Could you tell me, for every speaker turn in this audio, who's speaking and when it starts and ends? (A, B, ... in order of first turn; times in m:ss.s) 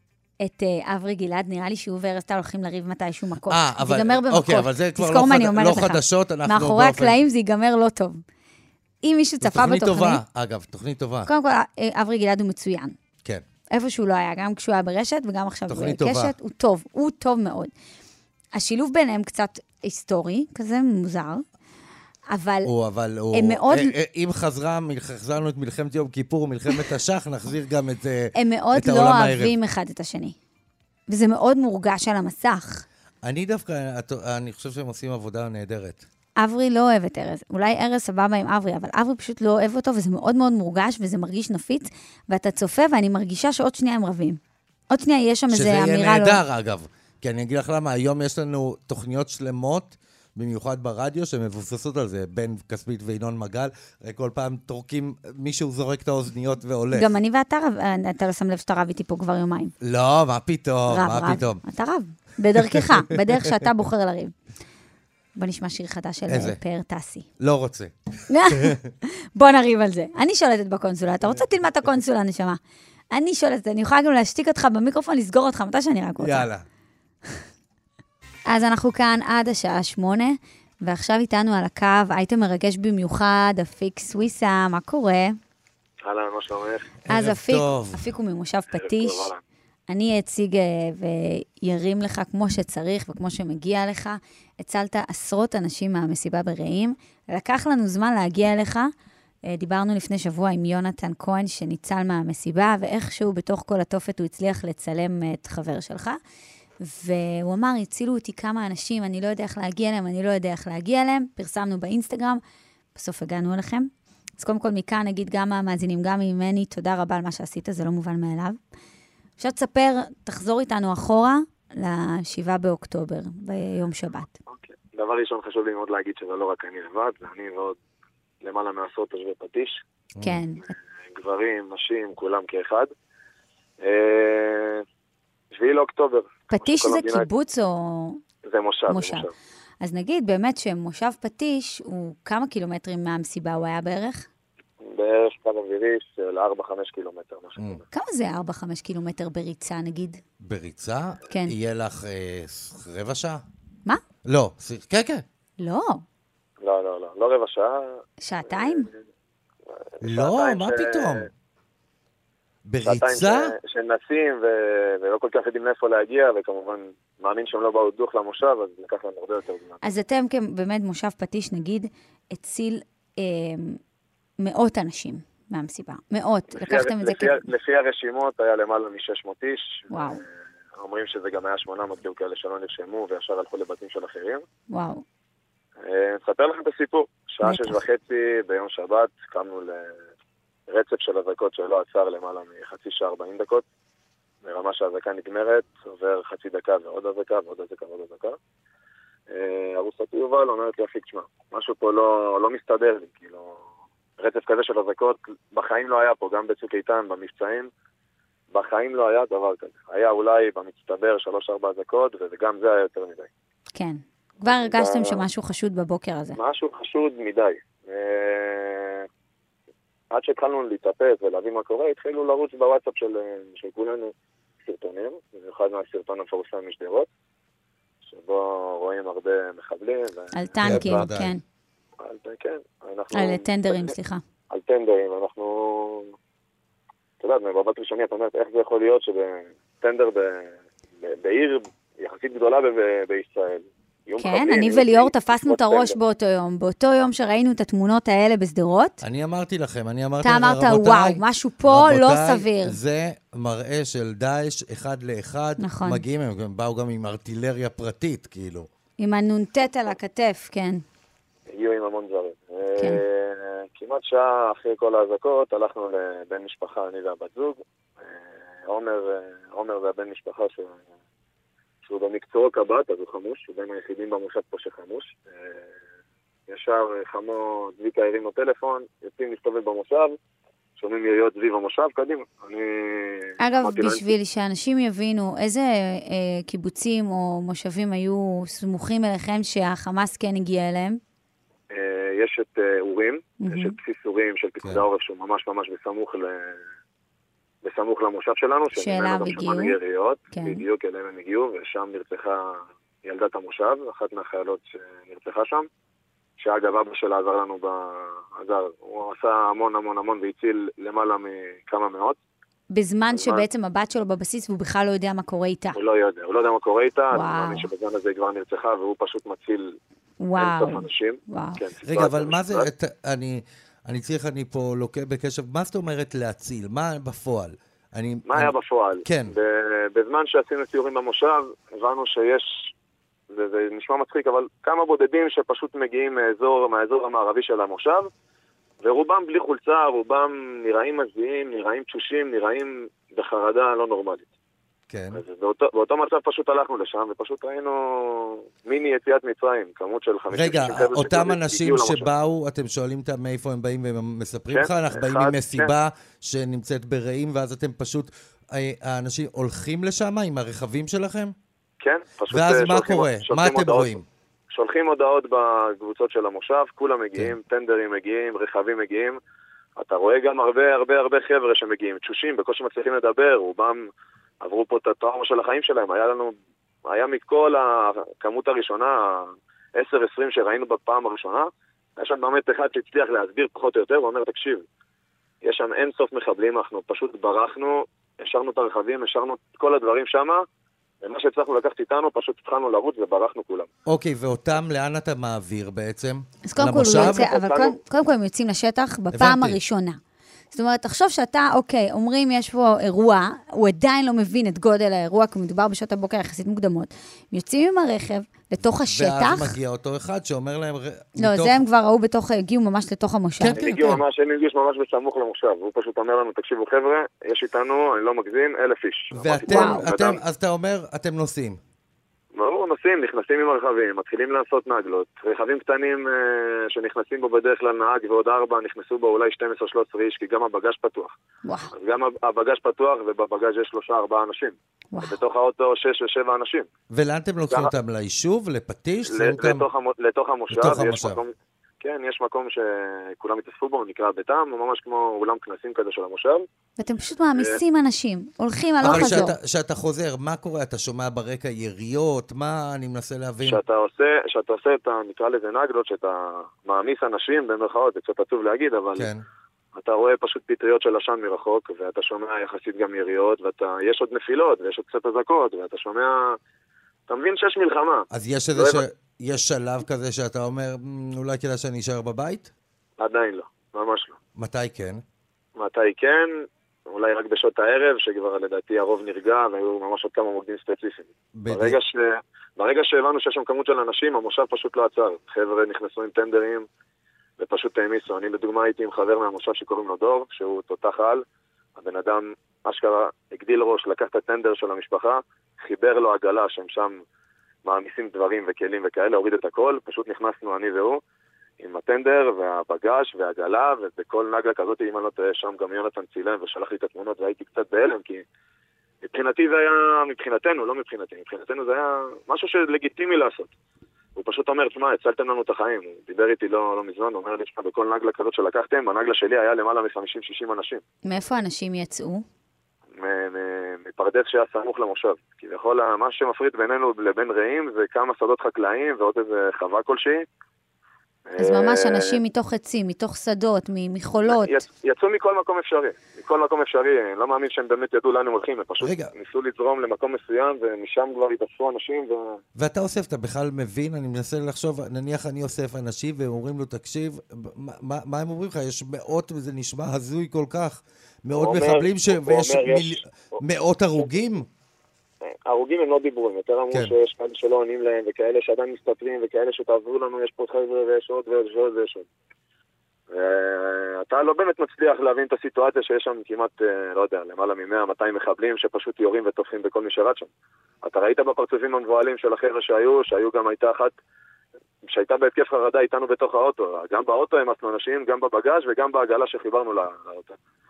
0:00.4-0:08.2 A
0:03.5-0:07.2 B
0:09.0-0:10.2 A
0:09.4-0:11.3 B
0:11.2-0:12.9 A
0:13.7-0:17.7 A
0:15.7-0:16.3 B
0:18.5-0:21.4 A
0:22.3-0:22.7 A
0:22.6-0:29.5 B
0:23.3-0:23.9 A
0:28.3-0:30.4 A
0:31.1-0:32.8 A
0:33.2-0:36.0 B
0:36.4-0:46.4 A
0:45.5-0:57.1 B
0:56.9-0:59.7 A
0:59.8-1:01.6 B
1:00.9-1:04.3 A
1:02.7-1:03.6 B
1:05.4-1:07.3 A
1:06.3-1:06.6 B
1:07.4-1:07.9 B
1:08.3-1:12.6 A
1:08.4-1:08.9 B
1:13.1-1:16.5 A
1:16.2-1:16.6 B
1:18.5-1:25.4 A
1:26.0-1:27.0 C
1:27.1-1:28.0 B
1:27.1-1:29.3 A
1:28.7-1:29.4 C
1:29.9-1:38.9 A
1:39.4-1:46.2 A
1:46.8-1:52.4 A
1:52.9-1:58.6 A
1:59.4-2:04.3 A
2:04.5-2:07.8 C
2:08.4-2:09.8 C
2:10.2-2:10.4 B
2:10.2-2:10.7 A
2:11.1-2:12.9 C
2:13.8-2:14.8 C
2:15.5-2:17.3 C
2:16.5-2:18.2 A
2:18.4-2:19.3 C
2:18.9-2:19.3 A
2:19.8-2:24.3 A
2:24.8-2:27.8 C
2:27.9-2:30.2 A
2:30.4-2:33.4 B
2:34.2-2:35.2 B
2:35.6-2:36.0 A
2:36.6-2:38.0 C
2:38.2-2:38.9 A
2:38.5-2:38.9 C
2:40.0-2:41.3 C
2:40.0-2:41.3 B
2:42.6-2:43.5 B
2:42.8-2:49.8 C
2:49.8-2:53.8 A
2:54.4-2:57.4 A
2:56.5-3:00.2 C
2:59.9-3:00.2 A
3:00.8-3:04.4 C
3:04.7-3:05.0 A
3:05.8-3:09.9 C
3:07.4-3:07.8 A
3:10.7-3:13.6 C
3:14.4-3:18.4 C
3:19.3-3:23.6 C
3:24.2-3:27.7 C
3:28.5-3:33.3 C
3:33.7-3:36.4 A
3:34.5-3:35.2 C
3:36.3-3:39.0 C
3:40.1-3:44.1 C
3:44.6-3:47.1 C
3:48.1-3:51.0 C
3:50.3-3:51.4 A
3:50.6-3:51.3 B
3:52.0-3:53.9 C
3:53.1-3:54.2 A
3:54.5-3:56.1 C
3:57.2-4:05.9 C
4:04.2-4:09.0 A
4:09.0-4:18.7 B
4:10.2-4:12.8 A
4:15.6-4:16.0 A
4:19.0-4:20.8 A
4:21.5-4:30.7 C
4:31.8-4:35.6 C
4:36.5-4:40.2 C
4:40.8-4:44.1 C
4:43.4-4:51.0 A
4:51.7-4:56.6 C
4:53.4-4:53.8 A
4:57.6-5:05.7 C
4:58.8-4:59.8 A
5:00.3-5:00.6 A
5:06.4-5:12.2 C
5:12.7-5:15.8 A
5:13.1-5:13.4 C
5:15.7-5:19.8 C
5:17.1-5:17.7 A
5:20.2-5:21.6 A
5:20.4-5:22.7 C
5:21.8-5:28.5 B
5:28.3-5:32.7 C
5:29.0-5:29.4 B
5:33.3-5:38.1 C
5:38.8-5:44.3 C
5:44.9-5:45.2 B
5:45.1-5:52.1 C
5:50.3-6:01.3 B
5:54.5-5:55.7 C
6:01.8-6:04.0 C
6:02.3-6:04.0 B
6:04.5-6:09.2 C
6:09.8-6:13.8 C
6:14.4-6:16.3 C
6:16.9-6:24.6 C
6:25.4-6:30.4 C
6:31.0-6:33.7 C
6:33.9-6:37.2 B
6:36.4-6:40.0 A
6:36.8-6:37.8 C
6:39.1-6:39.6 B
6:40.5-6:49.6 A
6:48.8-6:51.6 B
6:51.2-6:53.7 A
6:53.4-6:54.0 B
6:53.5-7:00.2 C
6:59.1-7:01.6 B
6:59.5-6:59.8 A
7:02.3-7:11.1 C
7:11.4-7:11.7 A
7:11.7-7:16.6 C
7:14.9-7:15.2 A
7:16.9-7:19.6 B
7:19.1-7:26.4 C
7:20.5-7:21.2 B
7:26.8-7:29.3 A
7:27.3-7:27.6 C
7:28.8-7:33.6 B
7:28.8-7:29.3 C
7:33.4-7:39.1 C
7:38.9-7:39.2 B
7:39.8-7:46.4 C
7:47.1-7:48.8 C
7:48.1-7:52.5 B
7:53.0-7:54.2 C
7:54.4-7:55.0 B
7:55.6-7:56.3 C
7:56.9-8:06.6 C
8:01.4-8:01.8 B
8:07.4-8:11.2 C
8:11.8-8:17.0 C
8:17.6-8:21.0 C
8:21.6-8:28.2 C
8:29.0-8:33.5 C
8:34.2-8:40.8 C
8:41.0-8:42.2 A
8:43.0-8:50.2 C
8:51.3-8:52.2 C
8:51.4-8:54.6 A
8:54.2-9:02.4 C
8:58.8-8:59.1 B
9:02.6-9:14.4 B
9:11.4-9:13.4 C
9:15.4-9:22.1 C
9:23.1-9:30.3 C
9:30.8-9:33.9 C
9:34.8-9:40.4 C